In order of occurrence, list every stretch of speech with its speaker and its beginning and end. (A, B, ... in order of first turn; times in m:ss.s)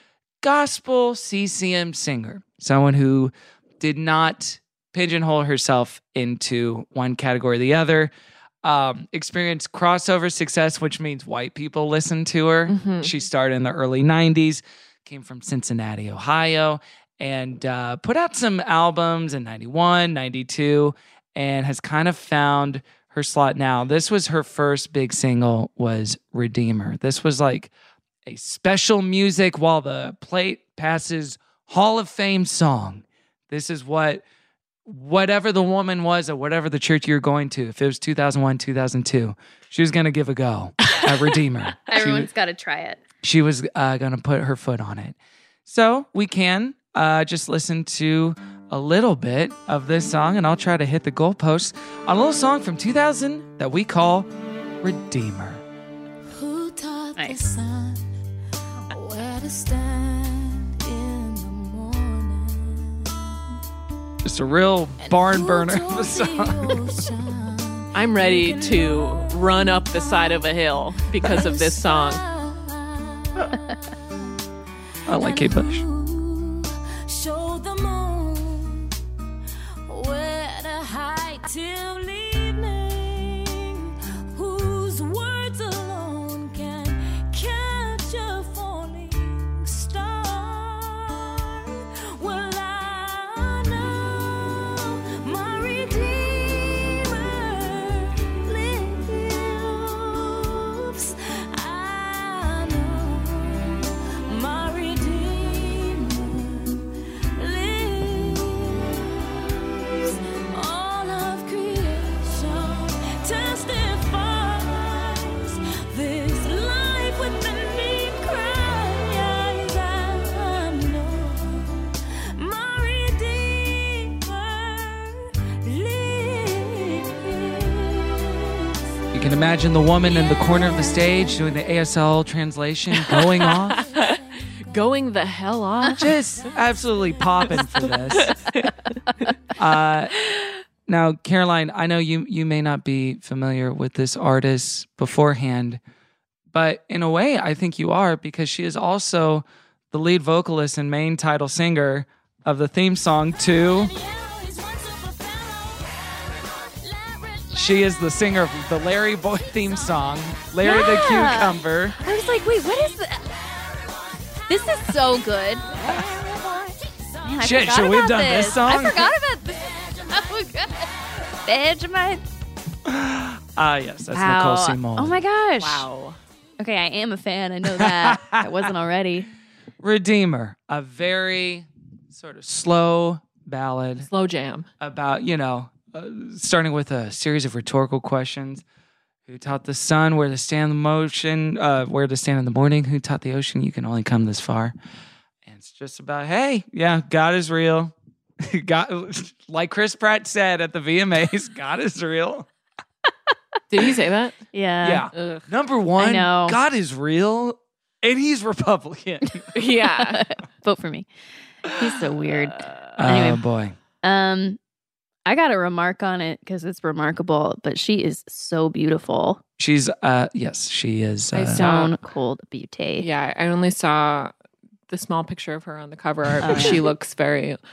0:00.4-0:08.1 A
0:08.6-0:27.7 A
0:12.7-0:13.1 B
0:28.2-0:34.2 A
0:34.9-0:42.3 A
0:41.9-0:43.0 C
0:43.2-0:54.3 A
0:54.8-0:55.6 A
0:56.3-0:58.1 D
0:58.9-1:03.2 D
1:04.2-1:06.8 A
1:05.1-1:14.3 D
1:07.9-1:12.2 B
1:15.1-1:15.8 A
1:15.1-1:18.9 D
1:19.9-2:08.6 D
2:09.1-2:13.9 A
2:10.0-2:11.5 D
2:13.0-2:16.1 B
2:13.7-2:14.8 D
2:16.0-2:18.4 A
2:16.4-2:18.3 D
2:17.6-2:18.7 B
2:19.6-2:20.1 A
2:20.9-2:25.8 A
2:26.5-2:33.9 A
2:33.4-2:37.8 D
2:37.5-2:42.0 A
2:39.4-2:39.9 D
2:40.6-2:43.2 C
2:42.4-2:47.7 D
2:44.5-2:45.7 C
2:47.2-2:50.9 C
2:47.4-2:49.1 A
2:49.5-2:50.5 D
2:51.4-2:52.2 C
2:52.9-2:55.2 A
2:54.1-2:55.9 C
2:55.6-2:56.2 B
2:56.6-2:59.3 C
2:57.7-2:58.7 A
2:59.8-3:04.1 A
3:04.0-3:04.7 B
3:04.8-3:08.6 A
3:09.3-3:14.7 A
3:15.4-3:22.5 A
3:23.7-3:24.4 B
3:24.5-3:25.1 C
3:24.8-3:29.5 A
3:25.1-3:25.4 B
3:26.0-3:26.6 C
3:29.5-3:30.2 B
3:29.8-3:31.1 C
3:31.6-3:33.4 C
3:33.0-3:33.8 A
3:34.0-3:34.6 C
3:35.2-3:39.4 C
3:39.6-3:41.6 A
3:41.3-3:42.0 B
3:41.5-3:43.1 C
3:43.0-3:44.3 B
3:44.9-3:47.6 B
3:46.4-3:46.8 C